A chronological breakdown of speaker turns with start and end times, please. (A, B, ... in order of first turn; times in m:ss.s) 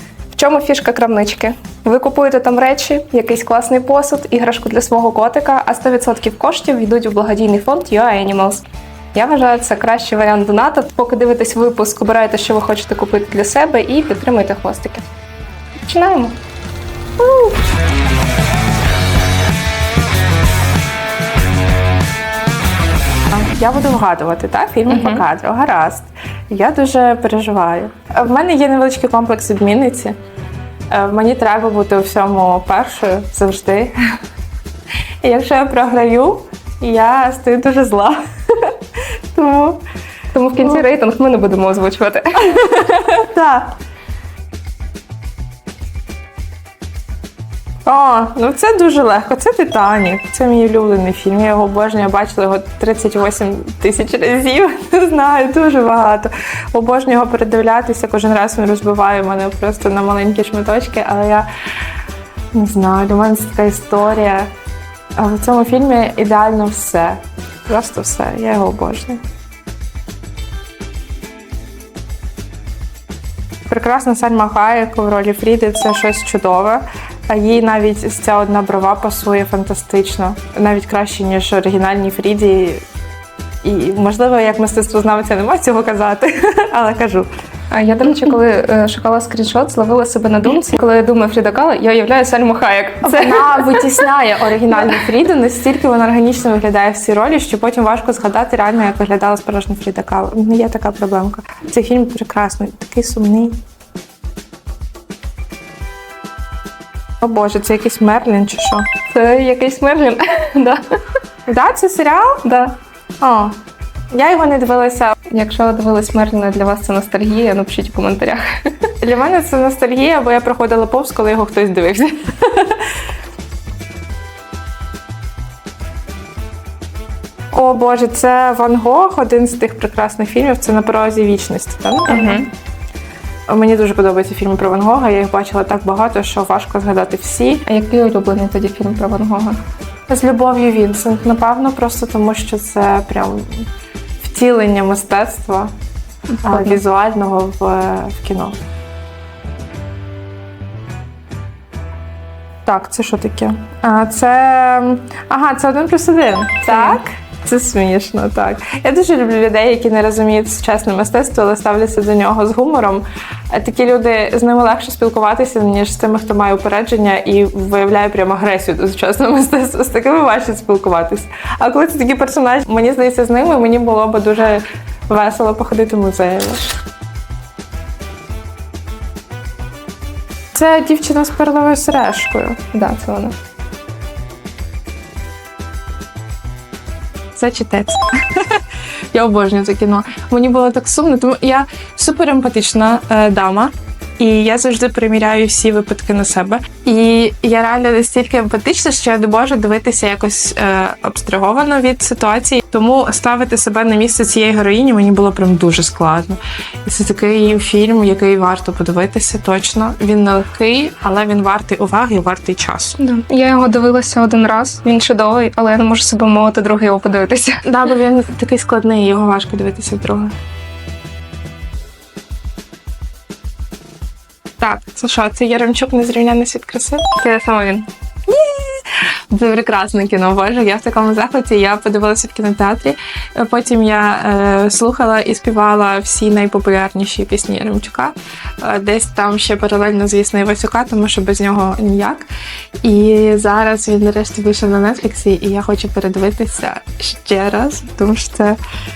0:00.3-0:15.0 A
0:15.9-0:16.4 A
0:23.3-0:30.2 B
0:24.9-0:25.2 A
0:30.9-0:33.9 B
0:35.2-0:38.7 B
0:39.3-0:39.8 B
0:40.3-0:42.9 A
0:40.6-0:40.8 B
0:42.5-0:43.7 B
0:47.8-1:01.5 B
1:02.5-1:04.5 B
1:05.2-1:09.2 B
1:13.7-1:22.8 B
1:23.6-1:27.3 B
1:27.7-1:34.0 A
1:33.0-1:43.6 B
1:47.2-1:48.9 B
1:49.1-1:50.8 A
1:51.4-1:52.4 B
1:52.4-1:52.8 A
1:53.2-1:53.6 B
1:54.1-1:55.1 B
1:55.3-1:58.4 A
1:59.0-2:02.8 B
2:07.5-2:12.5 B
2:12.1-2:12.5 A
2:13.5-2:17.6 B
2:17.6-2:19.6 A
2:20.1-2:23.7 B
2:24.2-2:25.7 B
2:26.4-2:26.8 A
2:26.4-2:28.6 B
2:32.6-2:56.6 B
2:36.6-2:37.0 A
3:00.5-3:02.6 B
3:02.7-3:03.3 A
3:07.3-3:08.6 B
3:09.1-3:33.0 B
3:33.0-3:37.6 A
3:37.6-3:40.4 B
3:44.6-3:47.0 B
3:47.2-3:47.9 A
3:48.3-4:02.3 B
4:02.8-4:08.6 B